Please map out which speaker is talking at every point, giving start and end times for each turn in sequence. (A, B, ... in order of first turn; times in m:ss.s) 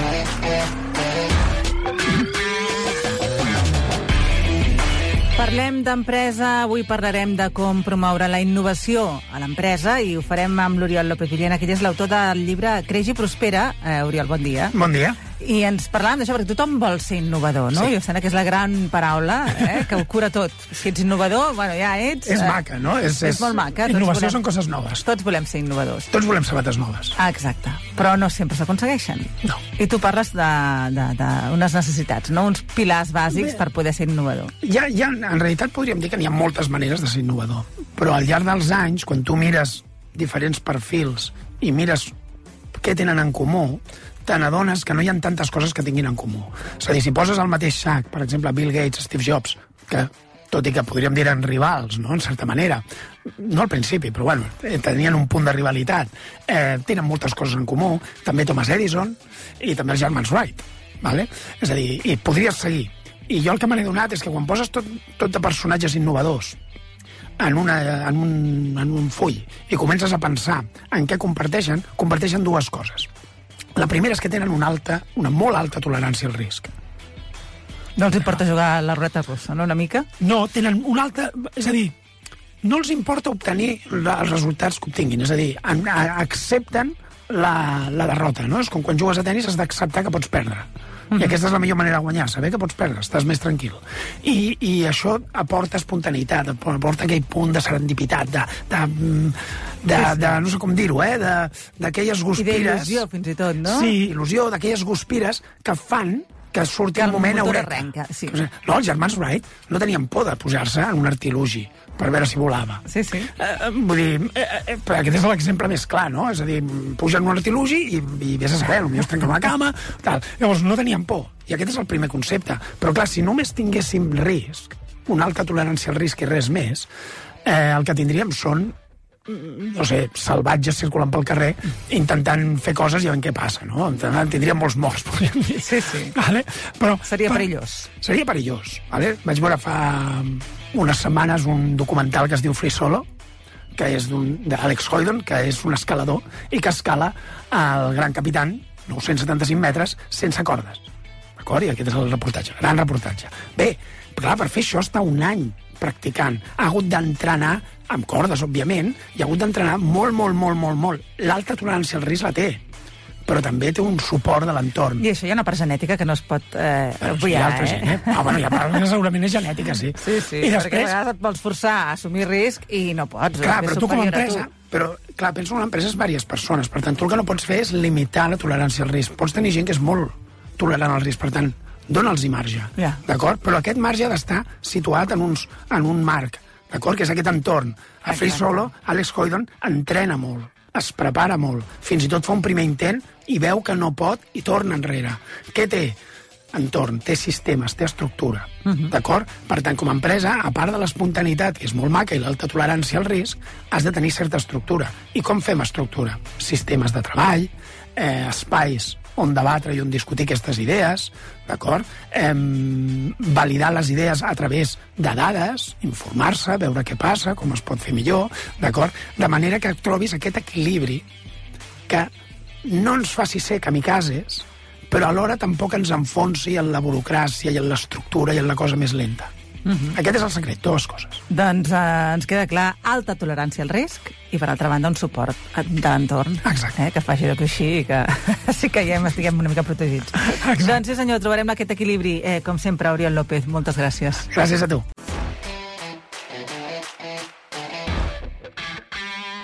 0:05.4-0:14.8 A
0:14.7-0:15.2 B
0:15.3-0:22.6 A
0:22.3-0:25.0 B
0:23.2-0:24.4 A
0:25.0-0:26.1 A
0:26.1-0:27.2 B
0:27.2-0:34.5 A
0:33.3-0:33.6 B
0:34.6-0:42.1 B
0:42.8-1:06.6 B
1:07.4-1:13.1 B
1:13.8-1:16.7 B
1:18.0-1:20.1 A
1:20.2-1:21.9 B
1:22.6-1:43.0 B
1:40.0-1:40.4 A
1:42.4-1:44.0 A
1:43.6-2:06.9 B
1:47.0-1:48.4 A
1:52.9-1:53.3 A
2:07.4-2:08.7 B
2:09.3-2:17.5 B
2:15.6-2:16.2 A
2:17.0-2:17.9 A
2:18.0-2:23.1 B
2:23.8-2:42.6 B
2:43.3-2:45.0 B
2:45.0-2:48.7 A
2:47.0-2:51.0 B
2:50.0-2:54.5 A
2:53.4-3:16.0 B
3:08.1-3:08.7 A
3:16.5-3:41.1 B
3:42.6-3:49.3 B
3:49.7-3:49.9 A
3:49.9-3:51.2 B
3:51.3-4:04.3 A
3:56.4-3:56.8 B
4:00.2-4:00.8 B
4:04.3-4:04.8 B